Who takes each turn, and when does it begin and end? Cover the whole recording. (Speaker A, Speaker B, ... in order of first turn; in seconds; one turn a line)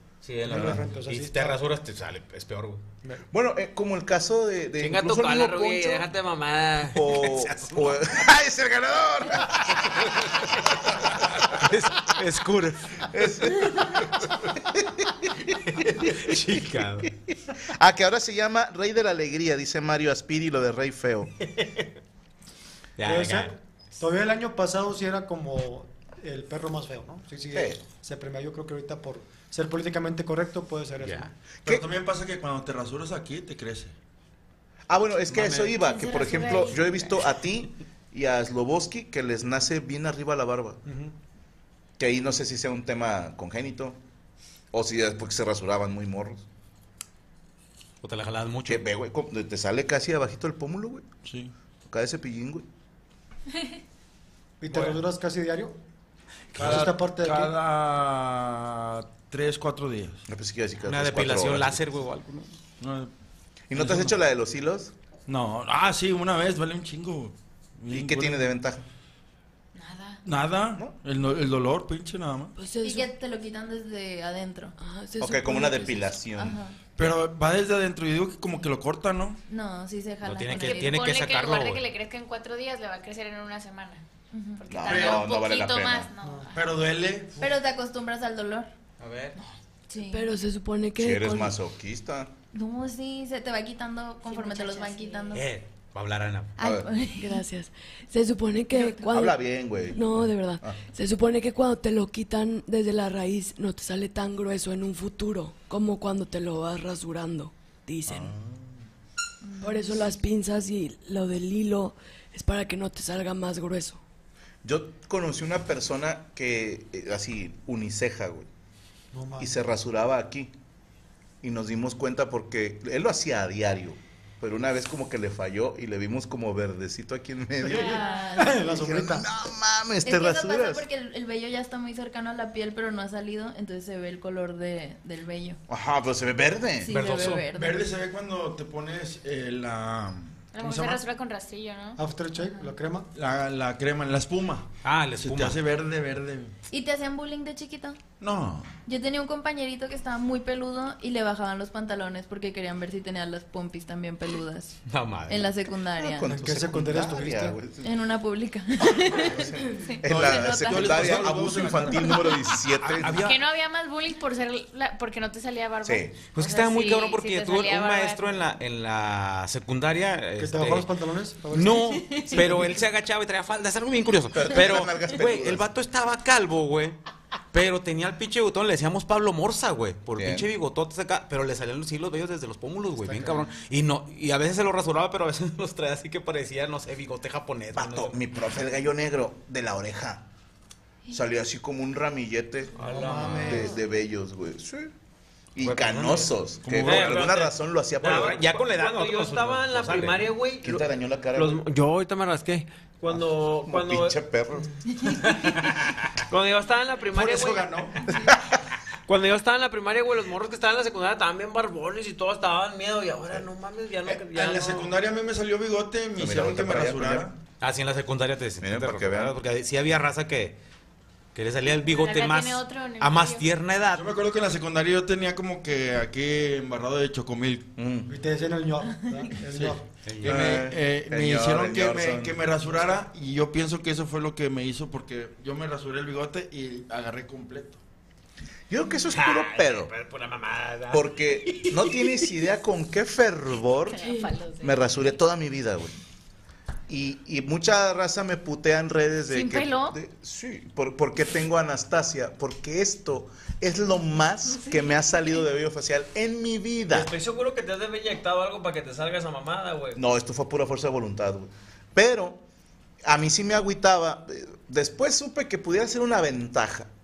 Speaker A: 0.2-2.8
Speaker B: 0.4-1.6
Speaker C: 3.3-6.1
Speaker D: 4.8-7.1
Speaker C: 6.9-10.3
Speaker A: 7.1-8.2
Speaker A: 10.1-13.1
Speaker C: 13.1-15.3
Speaker A: 15.7-17.1
Speaker C: 16.0-16.4
Speaker C: 17.0-21.3
Speaker A: 23.0-23.5
Speaker B: 23.0-31.3
Speaker C: 27.5-27.8
Speaker A: 31.0-31.3
Speaker E: 31.6-33.9
Speaker C: 34.9-40.8
Speaker A: 35.3-35.8
Speaker F: 35.8-37.1
Speaker B: 40.9-41.1
Speaker C: 42.0-44.0
Speaker C: 44.7-46.4
Speaker A: 48.0-48.8
Speaker C: 48.6-51.0
Speaker E: 51.2-51.5
Speaker C: 51.9-52.6
Speaker B: 54.6-55.8
Speaker E: 56.6-60.2
Speaker B: 56.6-57.5
Speaker C: 60.3-61.8
Speaker A: 60.8-62.5
Speaker E: 62.8-63.1
Speaker C: 63.7-64.9
Speaker E: 63.7-64.1
Speaker E: 65.3-68.5
Speaker C: 67.9-68.8
Speaker F: 69.7-70.2
Speaker E: 70.2-72.5
Speaker G: 72.5-73.1
Speaker H: 72.8-74.7
Speaker G: 74.8-76.1
Speaker C: 75.2-76.6
Speaker H: 76.3-76.8
Speaker E: 77.0-79.4
Speaker H: 79.5-81.0
Speaker A: 80.2-81.8
Speaker F: 80.6-84.0
Speaker H: 84.3-84.7
Speaker F: 84.6-86.8
Speaker C: 84.7-86.1
Speaker E: 84.9-85.2
Speaker B: 86.2-86.5
Speaker E: 86.5-87.4
Speaker H: 87.4-88.7
Speaker A: 89.0-89.4
Speaker H: 89.9-90.2
Speaker G: 90.1-91.6
Speaker C: 91.0-92.3
Speaker H: 92.5-95.5
Speaker F: 94.2-95.4
Speaker A: 95.3-96.5
Speaker H: 96.6-97.4
Speaker C: 96.6-96.9
Speaker G: 97.1-108.3
Speaker H: 98.7-99.0
Speaker C: 99.1-100.8
Speaker C: 108.1-108.7
Speaker H: 109.4-110.1
Speaker G: 109.6-114.0
Speaker C: 114.6-118.5
Speaker B: 119.1-119.5
Speaker C: 119.4-120.5
Speaker C: 121.4-128.1
Speaker B: 127.6-129.2
Speaker H: 127.7-128.9
Speaker F: 127.7-128.4
Speaker C: 128.6-130.9
Speaker H: 130.0-135.6
Speaker C: 135.7-137.0
Speaker H: 136.8-137.8
Speaker A: 136.9-137.4
Speaker E: 137.1-141.0
Speaker F: 140.5-142.0
Speaker B: 142.0-143.1
Speaker E: 143.1-144.7
Speaker A: 144.8-145.6
Speaker E: 145.2-146.5
Speaker H: 146.7-148.0
Speaker E: 148.2-148.7
Speaker H: 148.8-156.3
Speaker A: 154.9-155.5
Speaker C: 156.0-157.9
Speaker B: 156.2-157.6
Speaker H: 157.8-161.4
Speaker C: 159.2-163.2
Speaker E: 160.0-162.3
Speaker A: 162.8-163.4
Speaker F: 163.2-168.4
Speaker C: 165.8-166.2
Speaker A: 166.3-170.9
Speaker B: 170.4-172.7
Speaker A: 171.5-177.0
Speaker C: 174.3-175.7
Speaker A: 177.5-188.2
Speaker C: 180.2-180.5
Speaker B: 183.0-183.4
Speaker C: 187.7-190.2
Speaker C: 191.1-192.8
Speaker D: 192.8-193.6
Speaker B: 192.8-193.7
Speaker A: 193.1-193.4
Speaker C: 193.3-194.9
Speaker C: 195.5-198.6
Speaker A: 195.6-196.3
Speaker E: 196.6-197.3
Speaker D: 196.8-204.2
Speaker A: 198.0-200.3
Speaker C: 200.6-201.6
Speaker C: 203.1-204.7
Speaker D: 205.2-205.6
Speaker D: 206.3-207.7
Speaker E: 207.1-208.0
Speaker C: 208.1-208.6
Speaker D: 209.1-214.9
Speaker E: 214.3-217.3
Speaker C: 216.2-217.3
Speaker A: 217.6-220.6
Speaker C: 218.6-219.3
Speaker A: 221.3-224.0
Speaker F: 221.7-223.5
Speaker E: 223.9-227.7
Speaker C: 227.8-228.1
Speaker B: 228.1-229.8
Speaker H: 228.9-229.3
Speaker E: 229.5-237.8
Speaker A: 230.1-230.5
Speaker C: 230.2-232.4
Speaker C: 238.7-239.9
Speaker D: 239.0-242.3
Speaker C: 240.9-244.0
Speaker F: 243.9-244.9
Speaker G: 244.0-244.3
Speaker C: 244.6-245.9
Speaker C: 246.9-257.1
Speaker F: 249.3-249.9
Speaker D: 256.9-260.0
Speaker C: 259.9-262.4
Speaker C: 263.0-266.9